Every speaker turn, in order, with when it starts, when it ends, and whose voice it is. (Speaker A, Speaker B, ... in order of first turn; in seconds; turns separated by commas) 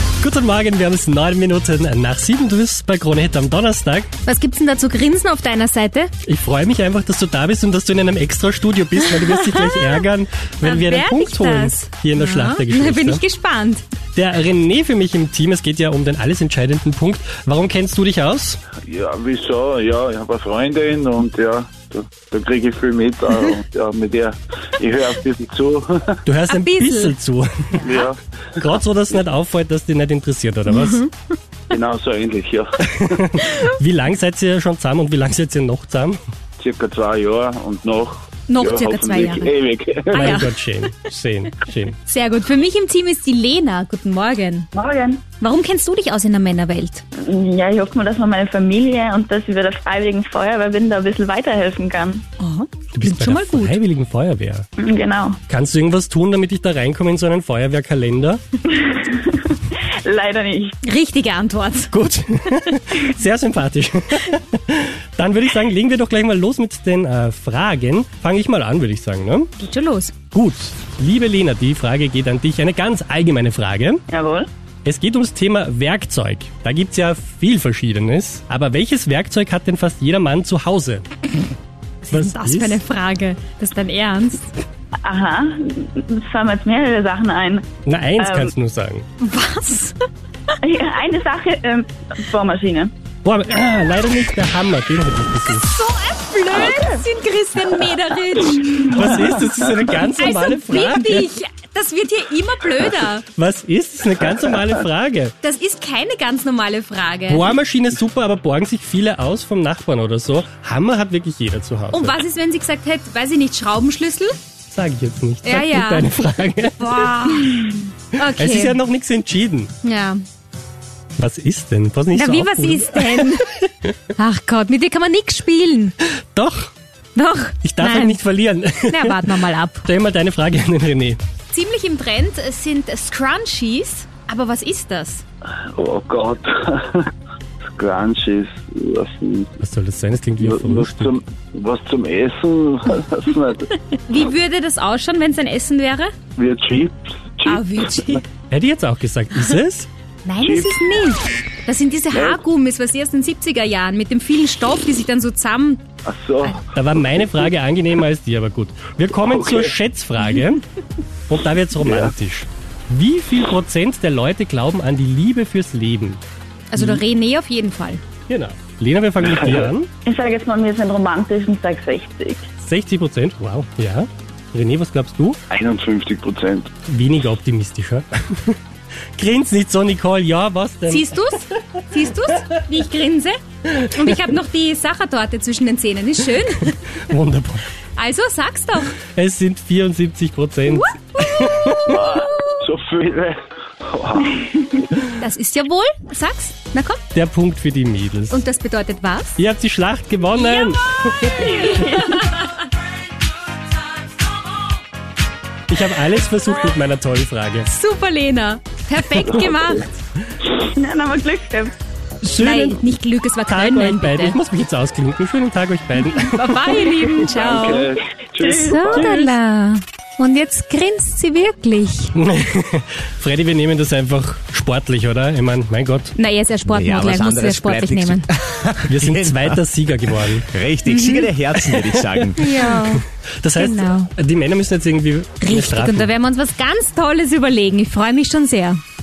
Speaker A: 0.2-4.1, Speaker B: 4.2-6.1, Speaker A: 6.2-13.2, Speaker B: 9.0-10.0, Speaker B: 10.6-13.8, Speaker A: 14.1-18.6, Speaker C: 18.8-26.2, Speaker A: 26.2-27.8, Speaker B: 26.5-27.2, Speaker B: 27.7-28.1, Speaker C: 27.8-28.2, Speaker A: 28.6-31.0, Speaker B: 30.7-31.1, Speaker C: 31.7-33.2, Speaker A: 32.9-36.2, Speaker B: 33.4-33.7, Speaker C: 36.6-40.4, Speaker B: 38.5-39.5, Speaker B: 40.1-40.9, Speaker A: 40.1-42.0, Speaker B: 42.0-44.7, Speaker D: 44.7-45.2, Speaker B: 45.3-47.0, Speaker D: 47.2-52.2, Speaker B: 52.4-53.8, Speaker A: 52.9-54.7, Speaker D: 54.8-55.4, Speaker A: 55.5-58.4, Speaker D: 58.7-60.7, Speaker B: 60.8-61.9, Speaker A: 61.9-69.5, Speaker B: 69.6-70.1, Speaker A: 70.3-74.0, Speaker D: 74.1-74.5, Speaker A: 74.8-81.0, Speaker B: 82.0-84.5, Speaker A: 82.1-82.8, Speaker D: 85.0-87.7, Speaker A: 87.8-89.0, Speaker D: 88.2-88.5, Speaker B: 89.2-90.5, Speaker D: 90.7-92.9, Speaker A: 93.2-95.7, Speaker B: 95.7-99.2, Speaker A: 98.8-101.3, Speaker B: 100.1-103.2, Speaker A: 103.3-105.3, Speaker B: 105.4-107.6, Speaker A: 107.3-112.2, Speaker B: 111.9-114.4, Speaker A: 114.7-117.2, Speaker B: 115.4-118.8, Speaker A: 118.2-119.7, Speaker B: 119.8-120.2, Speaker A: 121.2-123.9, Speaker B: 122.1-123.5, Speaker B: 124.1-125.9, Speaker A: 126.3-126.7, Speaker B: 127.1-128.2, Speaker A: 127.6-131.2, Speaker B: 128.9-129.9, Speaker B: 131.5-135.2, Speaker C: 135.7-137.1, Speaker C: 137.8-139.6, Speaker A: 139.6-141.2, Speaker C: 140.4-143.7, Speaker B: 143.9-146.1, Speaker C: 146.3-148.2, Speaker B: 147.4-148.2, Speaker A: 148.5-149.9, Speaker B: 150.2-155.8, Speaker C: 150.4-150.7, Speaker C: 152.1-152.4, Speaker C: 156.1-156.7, Speaker A: 156.7-160.6, Speaker C: 159.2-159.7, Speaker A: 161.3-166.2, Speaker C: 161.8-162.1, Speaker B: 166.7-168.0, Speaker A: 166.8-167.0, Speaker A: 168.3-169.9, Speaker C: 169.4-169.7, Speaker D: 170.1-172.4, Speaker A: 172.6-175.4, Speaker C: 175.5-176.7, Speaker A: 176.8-178.6, Speaker A: 179.2-181.2, Speaker B: 180.9-186.8, Speaker A: 187.1-187.7, Speaker B: 187.9-189.0, Speaker A: 189.0-192.0, Speaker B: 190.7-192.6, Speaker C: 191.8-194.4, Speaker D: 194.4-194.8, Speaker B: 195.0-197.0, Speaker A: 197.1-198.4, Speaker B: 198.3-199.4, Speaker A: 199.4-201.5, Speaker B: 200.3-202.5, Speaker D: 201.3-202.3, Speaker A: 205.7-207.7, Speaker B: 207.7-210.0, Speaker D: 210.5-211.7, Speaker B: 212.2-214.4, Speaker A: 212.2-212.9, Speaker A: 213.5-216.9, Speaker B: 215.9-217.9, Speaker C: 217.2-219.3, Speaker D: 217.4-219.2, Speaker B: 218.4-222.1, Speaker A: 222.2-226.1, Speaker B: 226.1-228.3, Speaker E: 226.6-229.6, Speaker A: 228.8-230.5, Speaker E: 230.5-232.4, Speaker B: 230.8-231.3, Speaker A: 231.5-236.1, Speaker B: 232.3-233.0, Speaker B: 233.6-234.1, Speaker B: 235.4-238.8